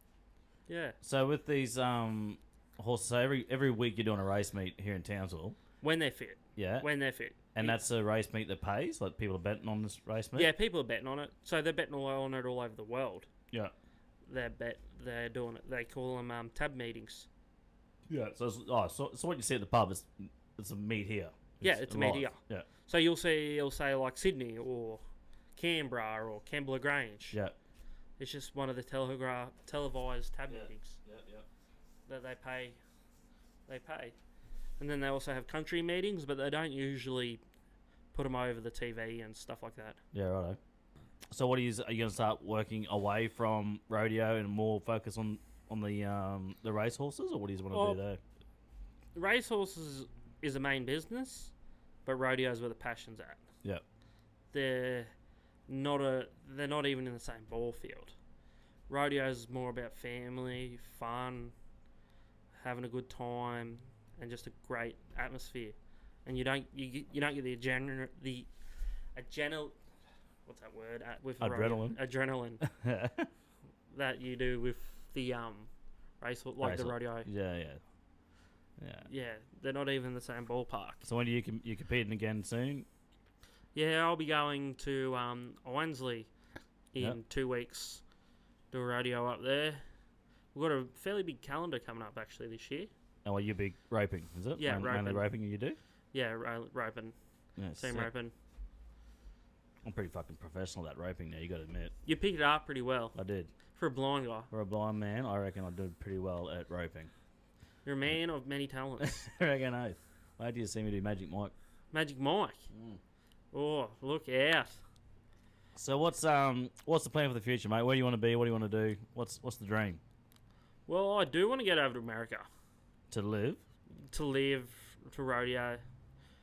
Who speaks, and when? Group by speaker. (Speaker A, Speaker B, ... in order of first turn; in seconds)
Speaker A: 0.7-1.0, 5.8-7.8, 10.3-13.3, 14.2-17.3, 21.6-25.0, 25.6-27.4, 28.2-31.0, 32.1-32.8, 33.7-34.1, 34.8-37.4, 38.1-40.0, 47.7-48.0, 49.1-51.5, 52.0-53.4, 54.5-55.1, 55.7-58.1, 58.9-61.5, 62.6-68.5, 69.2-69.8, 70.5-72.6, 73.9-75.7, 76.2-77.3, 79.0-81.0, 83.7-86.3, 86.9-88.0, 88.7-89.8, 90.5-92.9, 94.6-95.2, 96.1-97.1, 97.7-98.3, 102.0-103.2, 103.7-104.5, 107.8-109.3, 111.9-112.7, 113.5-114.8, 120.9-122.5, 124.1-125.8
Speaker B: 1.0-5.6, 6.5-6.8, 7.5-10.5, 18.1-22.7, 30.5-31.4, 40.1-40.6, 41.3-48.2, 71.4-72.0, 72.6-73.3, 76.6-77.8, 78.8-79.1, 81.0-82.8, 93.2-95.8, 97.6-98.1, 99.8-101.9, 103.1-103.5, 104.5-107.1, 109.0-111.5, 112.7-113.0, 115.7-120.0, 123.1-123.6